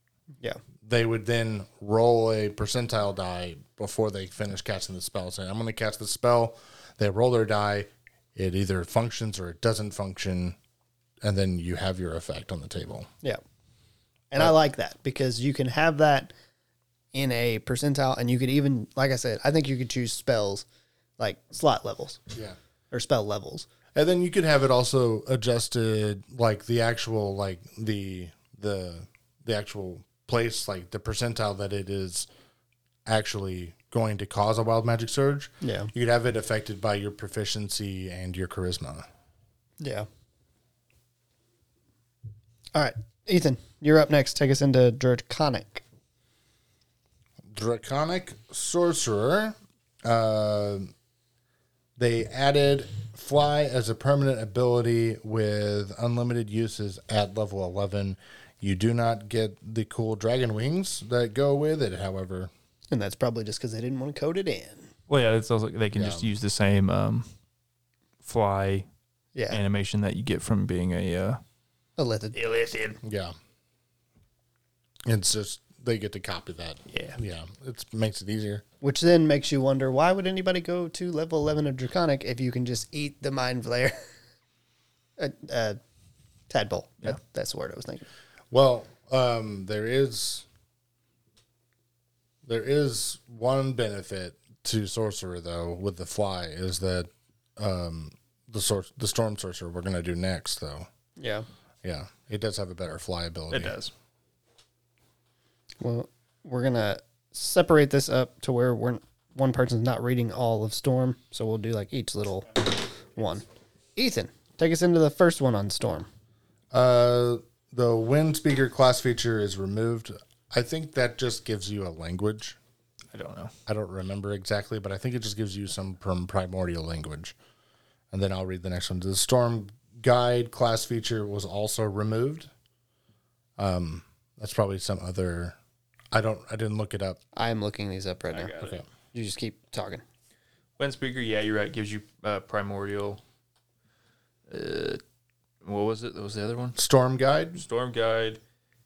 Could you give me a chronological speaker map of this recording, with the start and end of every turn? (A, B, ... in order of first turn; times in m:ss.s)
0:00.8-0:10.6 A
0:11.2-0:13.1 A
0:14.3-0:16.3 B
0:17.1-0:20.6 B
0:21.2-0:22.2 B
0:22.9-0:23.7 B
0:23.9-0:32.3 A
0:33.0-0:39.0 A
0:35.6-0:35.9 B
0:39.8-0:40.1 B
0:42.7-0:45.8 B
0:47.5-0:50.9 A
0:52.0-1:02.5 A
1:02.9-1:04.9 B
1:05.1-1:07.3 C
1:05.9-1:06.3 A
1:08.2-1:08.8 C
1:09.3-1:09.6 B
1:09.5-1:11.4 C
1:12.0-1:12.4 B
1:12.3-1:13.0 C
1:13.0-1:13.3 A
1:15.0-1:18.6 A
1:16.9-1:17.2 C
1:18.8-1:24.0 B
1:25.2-1:25.8 B
1:26.5-1:28.0 B
1:28.5-1:30.4 A
1:32.4-1:40.9 A
1:41.2-1:41.4 B
1:41.8-1:43.8 A
1:43.5-1:43.9 C
1:45.8-1:53.4 B
1:54.0-1:56.1 B
1:56.7-2:02.6 A
2:03.1-2:03.5 C
2:03.7-2:07.3 A
2:08.1-2:12.5 A
2:13.6-2:15.6 A
2:16.1-2:17.2 A
2:17.3-2:18.6 B
2:18.3-2:18.8 C
2:19.1-2:20.0 B
2:20.8-2:23.2 C
2:24.5-2:25.0 C
2:25.6-2:26.8 C
2:26.8-2:27.6 A
2:27.6-2:28.4 C